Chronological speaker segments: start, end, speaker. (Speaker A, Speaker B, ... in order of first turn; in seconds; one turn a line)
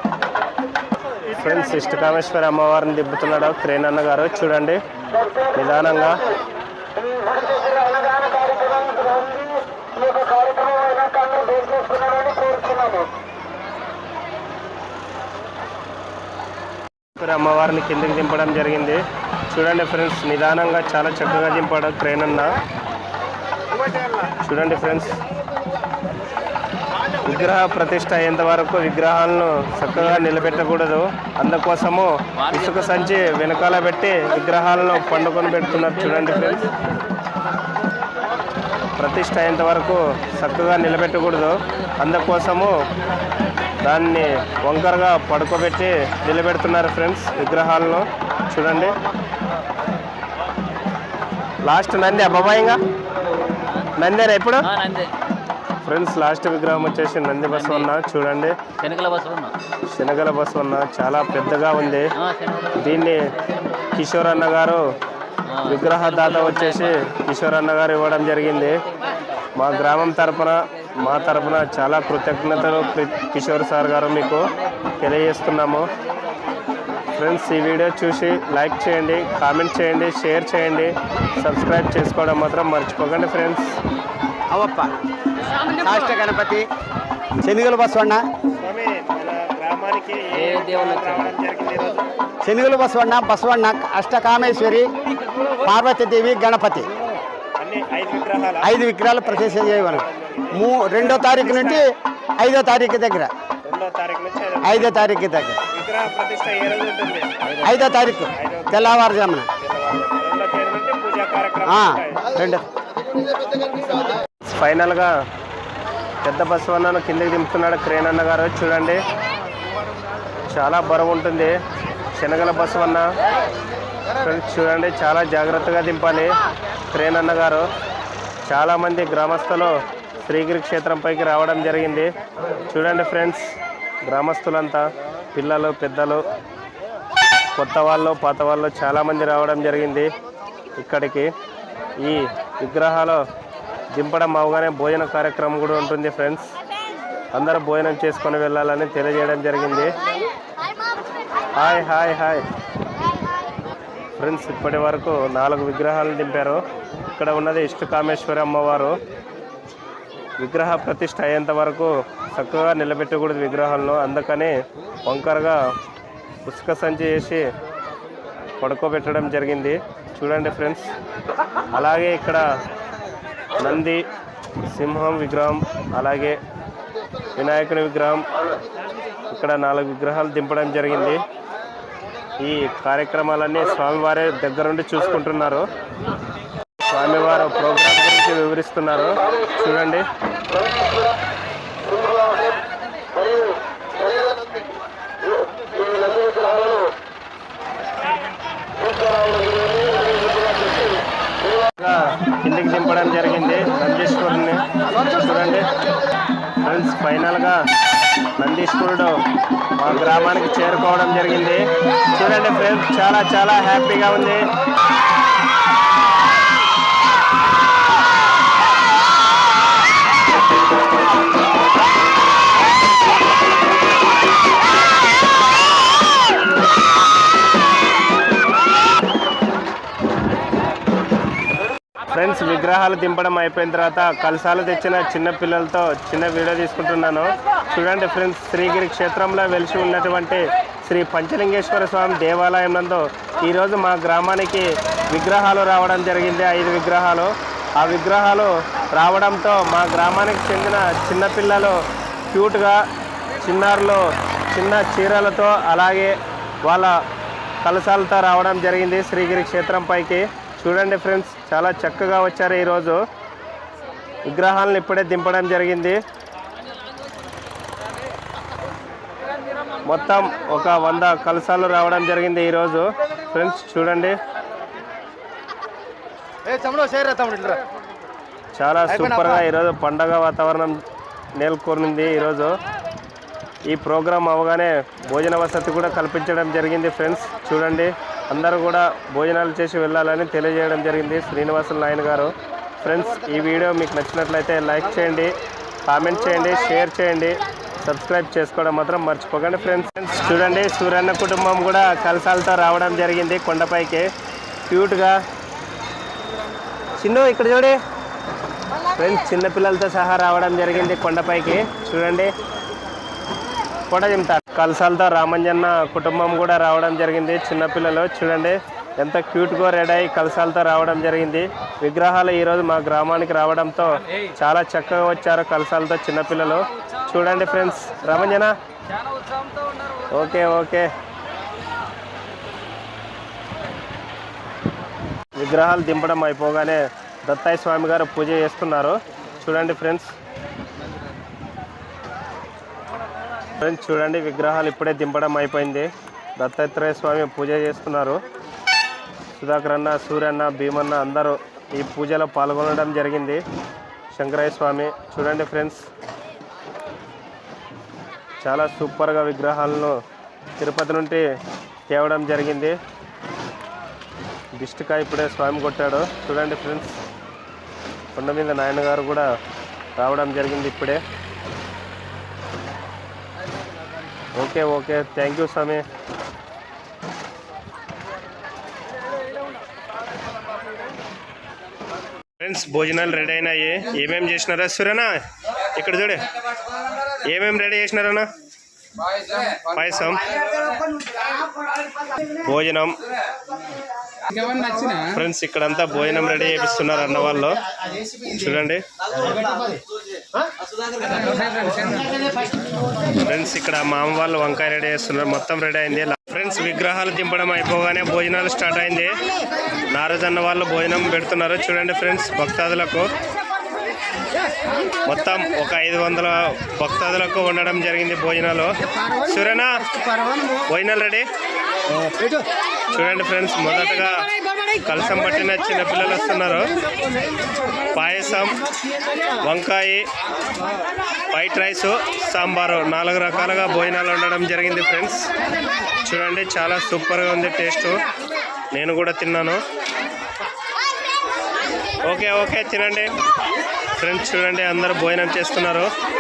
Speaker A: 1.3-4.8
Speaker A: 5.5-6.2
Speaker A: 17.1-22.6
Speaker A: 24.2-25.2
Speaker A: 27.2-36.7
Speaker B: 32.4-32.9
Speaker A: 39.0-42.8
Speaker A: 43.8-49.0
Speaker A: 51.6-52.8
Speaker A: 54.0-54.7
Speaker B: 54.7-55.1
Speaker A: 55.8-58.6
Speaker B: 58.8-59.5
Speaker A: 59.9-62.1
Speaker B: 62.2-62.8
Speaker A: 62.8-63.3
Speaker A: 63.9-64.8
Speaker B: 65.5-66.9
Speaker A: 65.7-68.8
Speaker A: 69.5-74.5
Speaker A: 75.0-75.9
Speaker A: 77.1-83.7
Speaker C: 84.5-84.9
Speaker C: 85.6-86.7
Speaker C: 87.4-88.2
Speaker A: 88.6-92.0
Speaker B: 90.5-91.2
Speaker C: 92.4-94.9
Speaker C: 95.5-96.9
Speaker A: 97.6-101.8
Speaker C: 98.6-101.9
Speaker C: 102.4-103.3
Speaker A: 103.6-105.1
Speaker C: 104.6-105.6
Speaker A: 105.7-112.3
Speaker C: 107.6-109.5
Speaker C: 111.7-112.6
Speaker A: 114.4-115.1
Speaker A: 116.2-119.0
Speaker A: 120.5-121.6
Speaker A: 122.1-123.1
Speaker A: 124.2-126.3
Speaker A: 126.9-127.7
Speaker A: 128.4-132.1
Speaker A: 132.7-133.5
Speaker A: 134.0-136.2
Speaker A: 137.6-140.1
Speaker A: 140.8-141.3
Speaker A: 142.0-143.2
Speaker A: 143.9-146.5
Speaker A: 147.3-150.0
Speaker A: 151.6-152.4
Speaker A: 154.2-159.0
Speaker A: 160.4-165.6
Speaker A: 166.4-167.4
Speaker A: 168.6-170.9
Speaker A: 171.7-172.4
Speaker A: 173.6-174.0
Speaker A: 174.7-176.4
Speaker A: 177.3-178.2
Speaker A: 179.3-181.2
Speaker A: 182.4-185.7
Speaker A: 186.9-190.1
Speaker A: 201.8-205.7
Speaker A: 206.6-207.6
Speaker A: 208.4-209.1
Speaker A: 209.8-214.4
Speaker A: 232.1-251.8
Speaker A: 252.3-252.8
Speaker A: 253.4-256.9
Speaker A: 257.6-263.0
Speaker A: 264.2-266.0
Speaker A: 269.9-274.2
Speaker C: 276.6-277.6
Speaker A: 278.6-280.8
Speaker A: 281.4-282.6
Speaker A: 283.7-295.3
Speaker A: 295.9-304.1
Speaker A: 304.7-305.2
Speaker A: 307.0-307.8
Speaker A: 308.9-312.3
Speaker A: 313.9-328.6
Speaker A: 330.1-330.9
Speaker A: 335.4-340.1
Speaker A: 343.6-348.2
Speaker A: 349.3-353.4
Speaker A: 354.1-355.9
Speaker A: 358.4-360.0
Speaker A: 360.6-361.2
Speaker A: 361.9-362.8
Speaker A: 364.6-366.9
Speaker A: 368.1-369.3
Speaker A: 370.0-371.0
Speaker A: 374.4-375.8
Speaker A: 382.4-385.1
Speaker A: 385.7-386.3
Speaker A: 387.2-388.3
Speaker A: 389.5-390.2
Speaker A: 392.3-393.0
Speaker A: 394.8-397.6
Speaker A: 398.2-398.8
Speaker A: 403.2-409.2
Speaker A: 409.9-413.1
Speaker A: 415.1-419.9
Speaker A: 420.6-421.3
Speaker A: 422.9-424.3
Speaker A: 424.8-426.7
Speaker A: 427.9-428.6
Speaker A: 429.4-430.0
Speaker A: 431.3-435.2
Speaker A: 436.0-438.0
Speaker A: 438.7-439.6
Speaker A: 442.0-443.1
Speaker A: 444.0-445.9